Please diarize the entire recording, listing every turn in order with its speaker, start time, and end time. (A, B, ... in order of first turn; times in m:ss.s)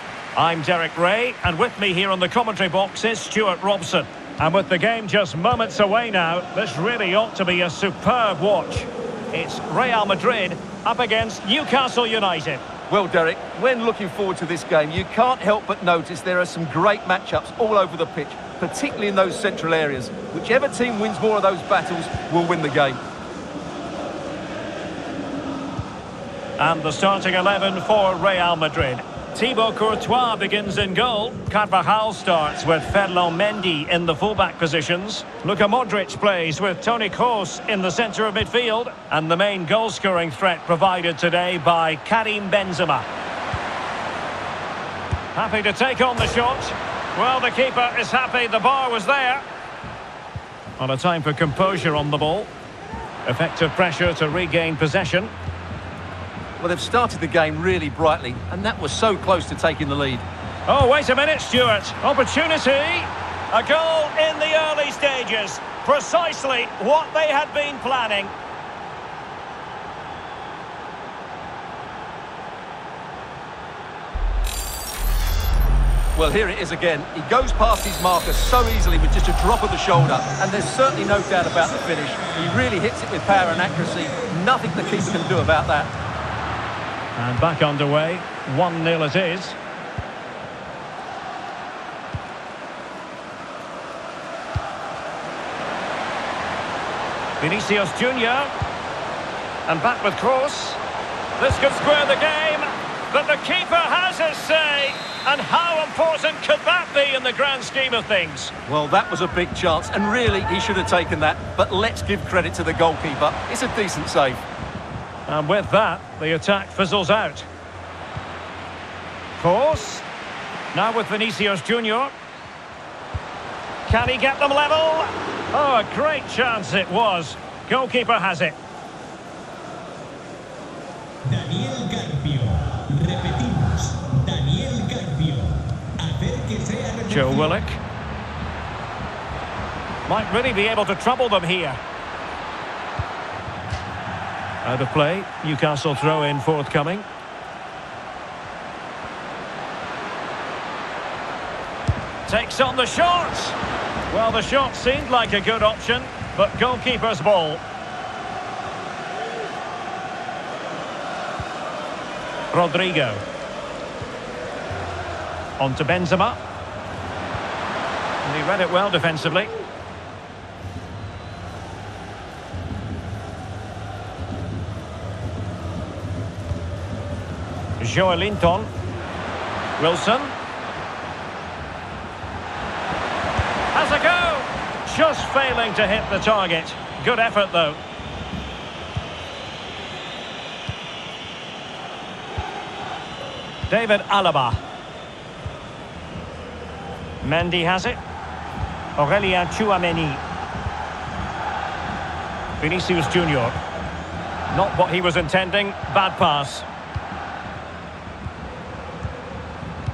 0:00.4-0:12.6 A
0:12.9-0:23.0 B
0:26.6-0:43.1 A
0:45.3-0:49.4 A
0:50.8-0:52.5 A
0:53.2-0:55.3 A
0:56.6-1:00.2 B
1:00.7-1:08.3 A
1:16.2-1:25.9 B
1:23.6-1:24.3 C
1:24.9-1:25.2 C
1:27.2-1:29.6 A
1:37.4-1:38.5 A
1:39.7-1:40.8 A
1:41.4-1:48.5 A
1:48.7-1:54.4 B
1:55.3-1:57.5 A
1:59.4-2:00.1 A
2:00.7-2:02.1 A
2:03.9-2:08.6 A
2:11.2-2:17.6 C
2:17.1-2:17.8 A
2:20.1-2:21.8 A
2:24.6-2:27.1 A
2:32.3-2:33.6 A
2:34.1-2:37.6 A
2:42.5-2:43.2 A
2:45.6-2:46.4 A
2:48.2-2:49.5 A
2:57.8-2:58.7 A
2:59.8-3:00.3 A
3:03.7-3:07.8 A
3:13.7-3:14.6 A
3:17.2-3:18.0 A
3:19.0-3:20.2 A
3:22.6-3:23.6 A
3:24.5-3:26.7 A